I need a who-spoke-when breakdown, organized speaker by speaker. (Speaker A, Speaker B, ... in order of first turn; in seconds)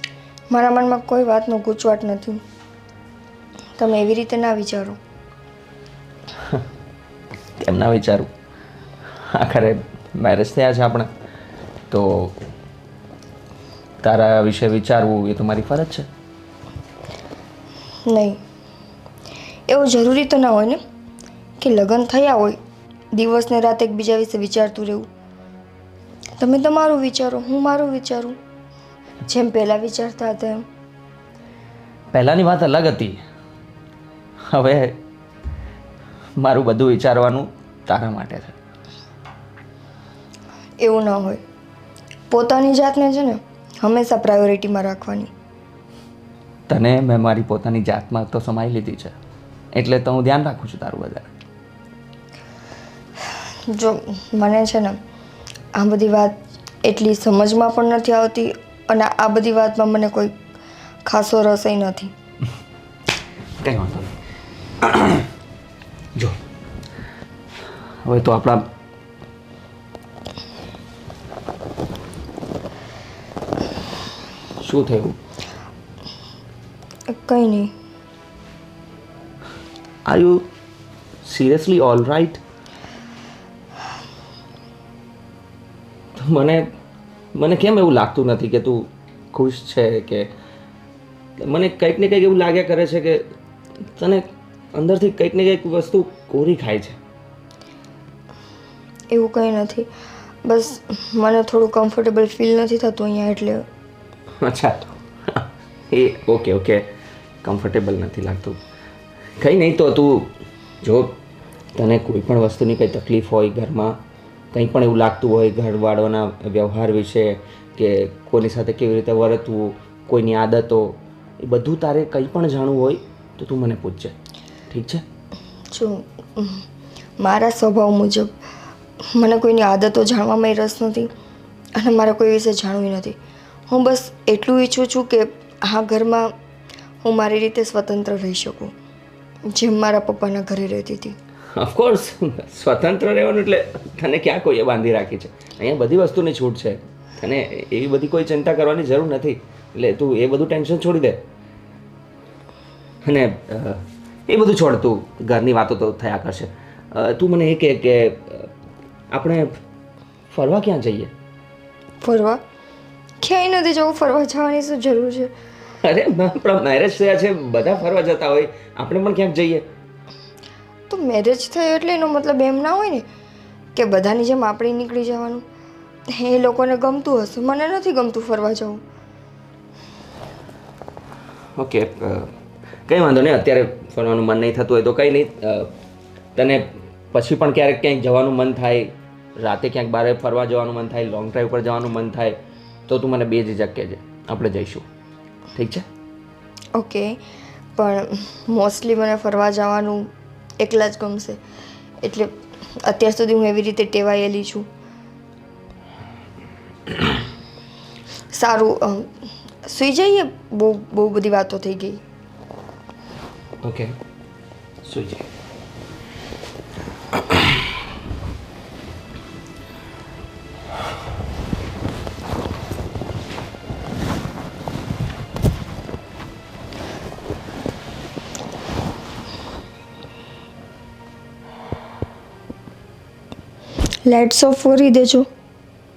Speaker A: 0.5-2.4, 3.8-5.0, 18.1-18.4, 19.7-20.8, 21.6-22.6, 23.1-25.1, 26.4-28.4, 29.3-30.6, 40.8-41.4, 42.3-45.3, 53.7-55.0, 55.8-60.4, 61.1-62.1, 77.1-77.7, 99.1-99.9, 100.5-103.7, 125.7-126.6, 127.2-128.3, 129.1-131.1, 131.8-133.2, 133.7-136.3, 137.0-138.7, 139.4-141.2, 162.0-162.4, 163.2-165.3, 170.9-173.1, 173.8-175.5, 176.1-178.8, 196.8-197.2, 197.8-201.4, 202.0-204.7, 208.3-209.1, 209.7-212.0, 234.1-235.3
Speaker B: 7.6-8.3, 9.3-11.1, 11.9-12.4, 14.0-16.1, 32.1-33.2, 34.5-35.0, 36.4-38.6, 46.7-49.1, 49.7-51.3, 63.6-64.1, 64.8-65.3, 68.0-68.6, 74.6-75.2, 80.1-80.5, 81.2-82.4, 86.2-86.7, 87.3-90.3, 91.4-93.3, 94.0-97.0, 104.4-106.8, 107.4-108.6, 109.4-111.2, 111.8-114.0, 114.5-124.2, 124.7-125.0, 141.5-151.2, 153.0-158.5, 159.1-159.5, 160.3-161.1, 165.8-169.7, 181.6-182.3, 182.9-185.7, 186.4-194.8, 195.6-195.9, 213.6-213.9, 214.8-215.2